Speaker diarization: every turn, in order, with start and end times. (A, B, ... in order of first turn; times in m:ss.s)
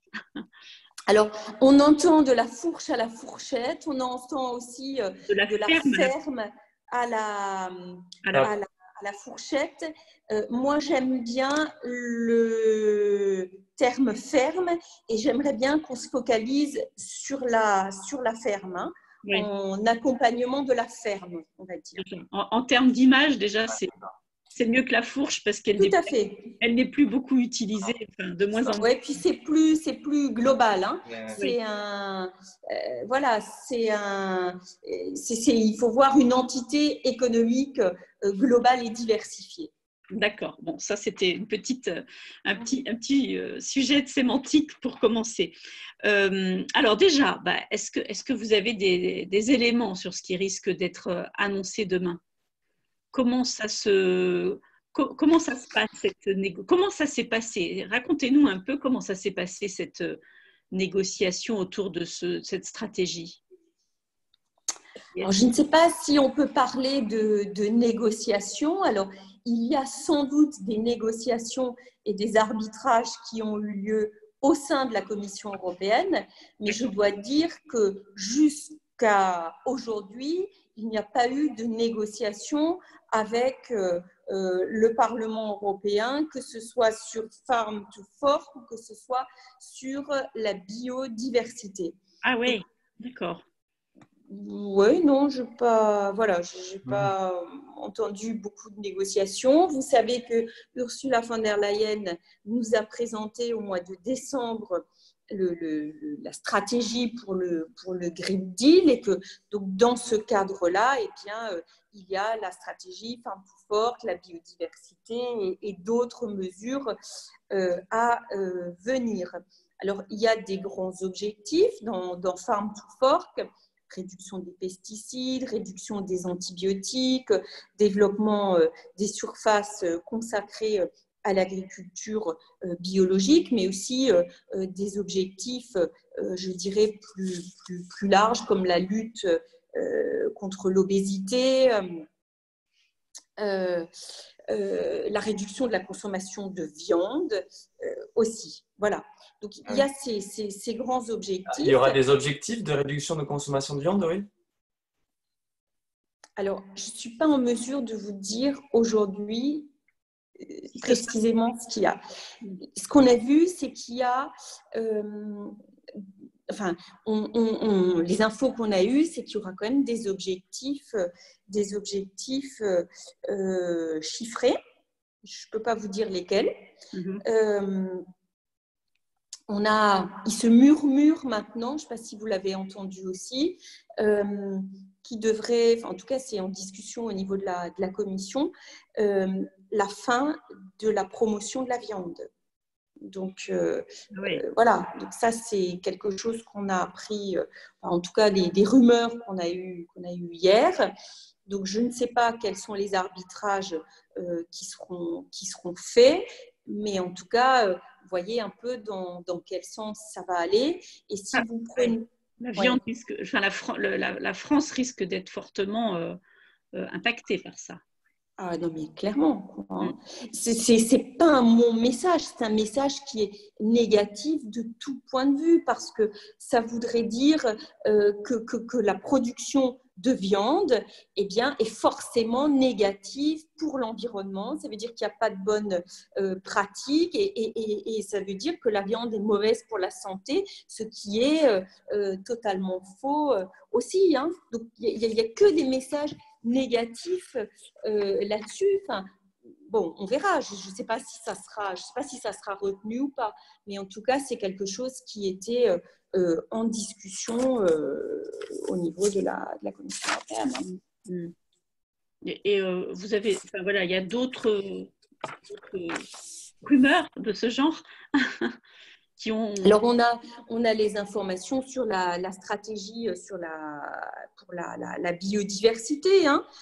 0:01.1-0:22.0 A
0:05.3-0:06.1 B
0:22.0-0:23.9 B
0:23.7-0:24.1 C
0:24.6-0:28.9 B
0:25.8-0:26.5 A
0:28.7-0:39.7 A
0:31.1-0:31.4 C
0:40.1-0:52.2 B
0:53.1-1:00.2 B
1:00.7-1:03.4 B
1:05.2-1:32.6 A
1:32.2-1:33.4 B
1:34.3-1:57.0 A
1:36.8-1:37.1 C
1:57.5-2:22.0 A
2:23.4-2:23.9 A
2:24.5-2:32.0 A
2:31.5-2:34.3 C
2:36.4-2:39.7 A
2:40.4-2:42.0 A
2:40.8-2:41.1 B
2:42.8-2:45.6 A
2:46.5-2:54.6 A
2:55.2-2:56.5 A
2:56.9-2:57.2 B
2:57.2-2:58.0 A
2:59.5-3:12.3 A
3:13.0-3:20.9 A
3:14.1-3:14.4 B
3:21.5-3:32.8 A
3:31.3-3:36.2 B
3:36.7-3:37.8 B
3:38.4-4:09.1 A
4:09.7-4:20.7 A
4:20.6-4:21.3 B
4:22.2-4:24.9 B
4:25.5-4:26.1 B
4:26.6-4:28.6 B
4:29.2-4:29.8 B
4:29.6-4:36.4 A